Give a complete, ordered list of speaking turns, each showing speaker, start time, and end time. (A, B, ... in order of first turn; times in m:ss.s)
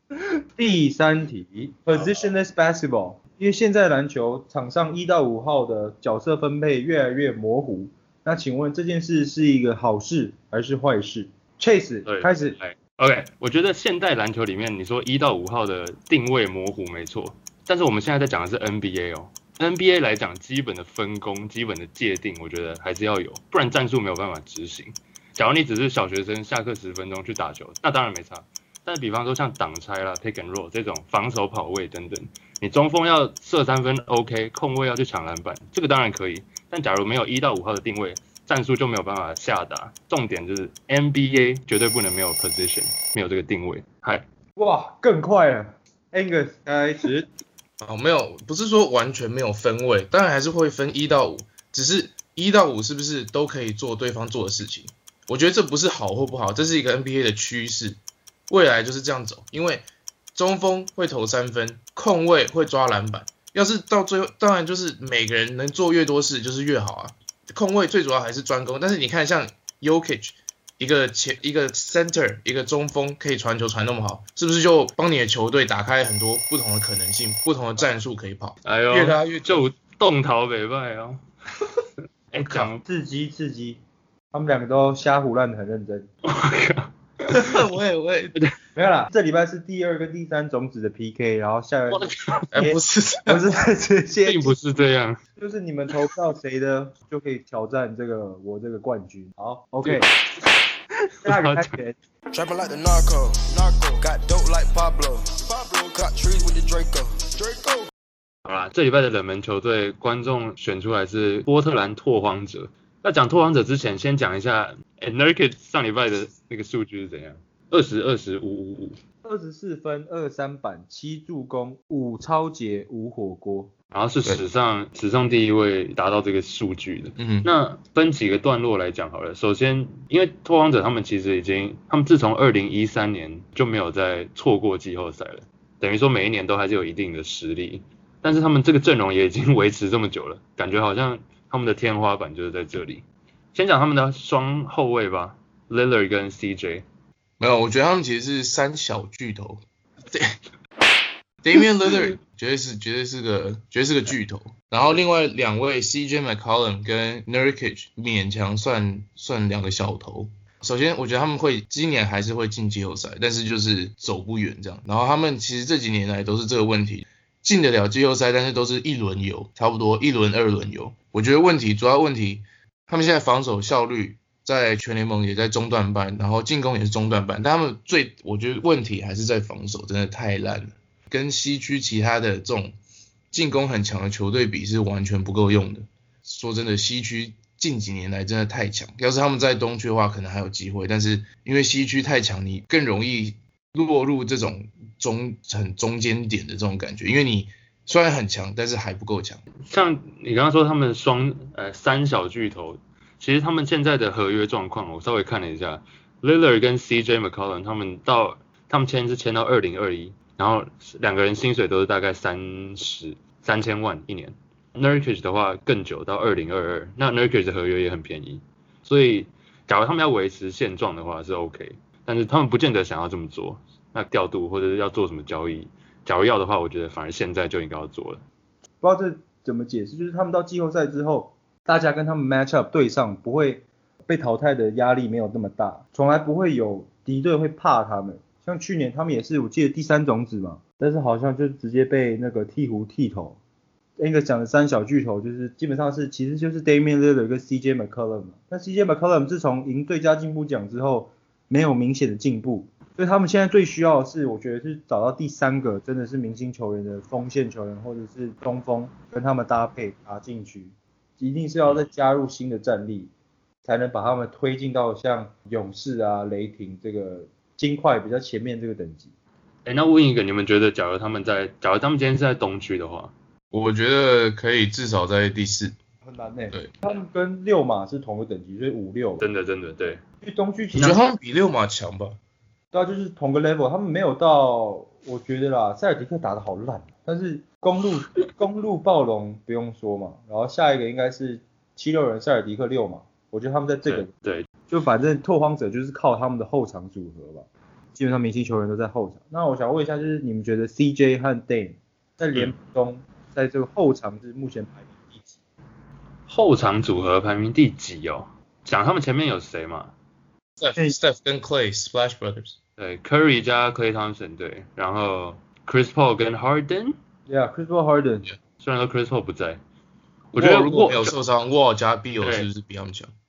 0:00.6-0:12.6 A
0:12.1-0:44.3 B
0:44.6-0:47.3 A
0:47.8-1:19.6 C
1:18.6-1:21.2 B
1:22.3-1:22.8 B
1:22.5-1:23.8 A
1:24.3-1:26.1 A
1:26.2-1:27.6 B
1:27.3-1:28.4 C
1:28.8-1:34.6 A
1:32.0-1:32.5 B
1:32.5-1:33.4 C
1:34.2-1:35.2 B
1:35.4-1:40.1 A
1:39.8-1:40.5 B
1:41.2-1:41.7 B
1:41.2-1:42.0 A
1:42.3-1:47.9 D
1:48.4-1:59.0 B
1:59.2-2:03.7 A
2:03.9-2:26.8 B
2:07.2-2:07.5 C
2:27.4-2:30.4 C
2:31.4-3:02.8 C
3:03.3-3:19.4 C
3:19.6-3:48.2 B
3:48.8-4:03.4 A
4:04.0-4:23.1 A
4:23.6-4:29.1 A
4:29.6-4:33.1 B
4:33.5-4:35.8 C
4:36.0-4:39.2 A
4:39.2-4:40.0 B
4:40.2-4:41.0 A
4:40.8-4:42.2 C
4:42.7-4:54.1 A
4:53.9-4:54.5 B
4:54.7-5:05.4 A
5:06.3-5:09.9 B
5:10.6-5:12.6 C
5:12.8-5:17.0 B
5:17.3-5:18.3 A
5:18.6-5:19.6 B
5:20.3-5:21.1 B
5:20.4-5:23.1 C
5:22.2-5:22.5 B